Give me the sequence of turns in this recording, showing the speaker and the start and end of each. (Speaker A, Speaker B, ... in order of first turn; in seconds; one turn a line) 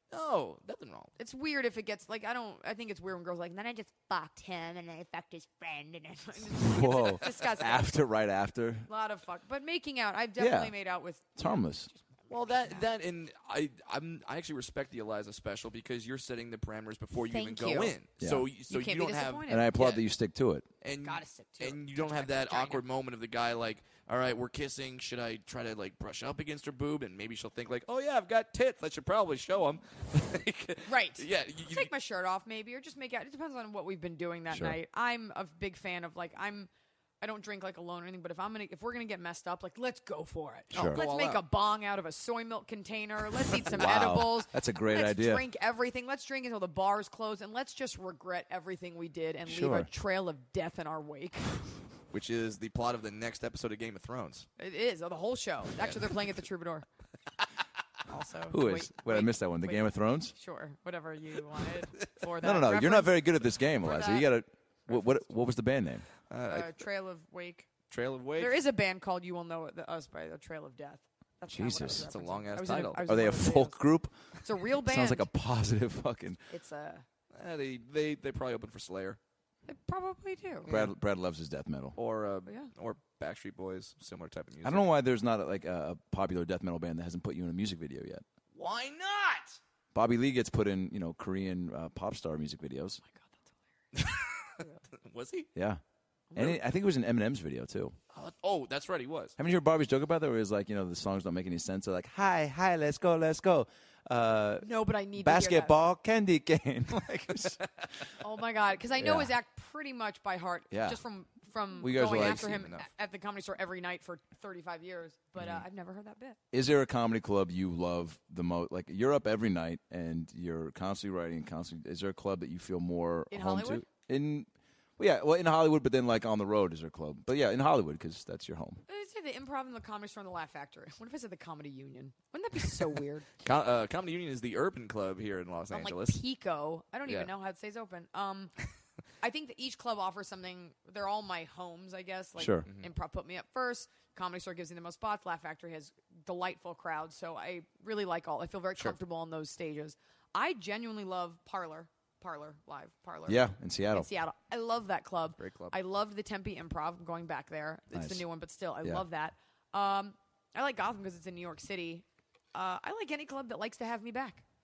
Speaker A: 0.1-1.1
Speaker B: 1.2-7.9
Speaker C: 6.6-8.9
Speaker B: 8.9-12.9
Speaker C: 10.4-10.7
Speaker C: 11.3-11.9
Speaker A: 12.3-20.0
Speaker B: 17.3-17.9
Speaker C: 18.2-18.5
Speaker B: 18.7-19.8
Speaker C: 19.5-20.7
Speaker A: 20.8-31.9
Speaker B: 21.0-22.8
Speaker B: 30.9-36.7
Speaker C: 34.5-34.8
Speaker B: 37.2-51.6
Speaker C: 40.7-41.0
Speaker A: 40.7-41.4
Speaker C: 43.7-45.4
Speaker C: 49.5-49.9
Speaker A: 52.1-54.5
Speaker B: 54.6-56.9
Speaker A: 55.8-56.2
Speaker B: 58.1-63.2
Speaker C: 58.5-60.3
Speaker C: 62.4-66.1
Speaker B: 63.8-64.3
Speaker B: 64.9-65.2
Speaker A: 66.3-66.8
Speaker B: 66.5-67.7
Speaker A: 67.9-68.6
Speaker B: 68.4-73.8
Speaker C: 71.5-72.1
Speaker A: 72.1-73.0
Speaker C: 72.7-74.1
Speaker B: 74.4-75.3
Speaker C: 74.7-76.4
Speaker B: 76.5-77.0
Speaker A: 77.3-79.2
Speaker B: 79.7-80.7
Speaker A: 80.6-80.9
Speaker C: 80.7-82.0
Speaker A: 82.0-84.9
Speaker B: 82.5-82.7
Speaker C: 84.6-88.2
Speaker A: 88.5-89.6
Speaker C: 89.9-93.0
Speaker B: 93.1-93.4
Speaker A: 93.9-95.5
Speaker C: 95.5-95.8
Speaker B: 96.3-96.6
Speaker C: 96.3-98.0
Speaker A: 98.1-99.3
Speaker C: 99.4-107.7
Speaker B: 104.6-105.8
Speaker B: 108.2-116.4
Speaker C: 109.0-109.3
Speaker C: 110.7-111.0
Speaker C: 111.8-112.6
Speaker A: 111.8-112.9
Speaker C: 116.5-128.8
Speaker B: 123.3-123.8
Speaker B: 128.9-133.3
Speaker A: 133.4-136.2
Speaker B: 135.7-138.5
Speaker B: 139.2-164.4
Speaker C: 142.4-142.7
Speaker C: 153.3-154.1
Speaker A: 155.4-155.7
Speaker C: 157.9-158.2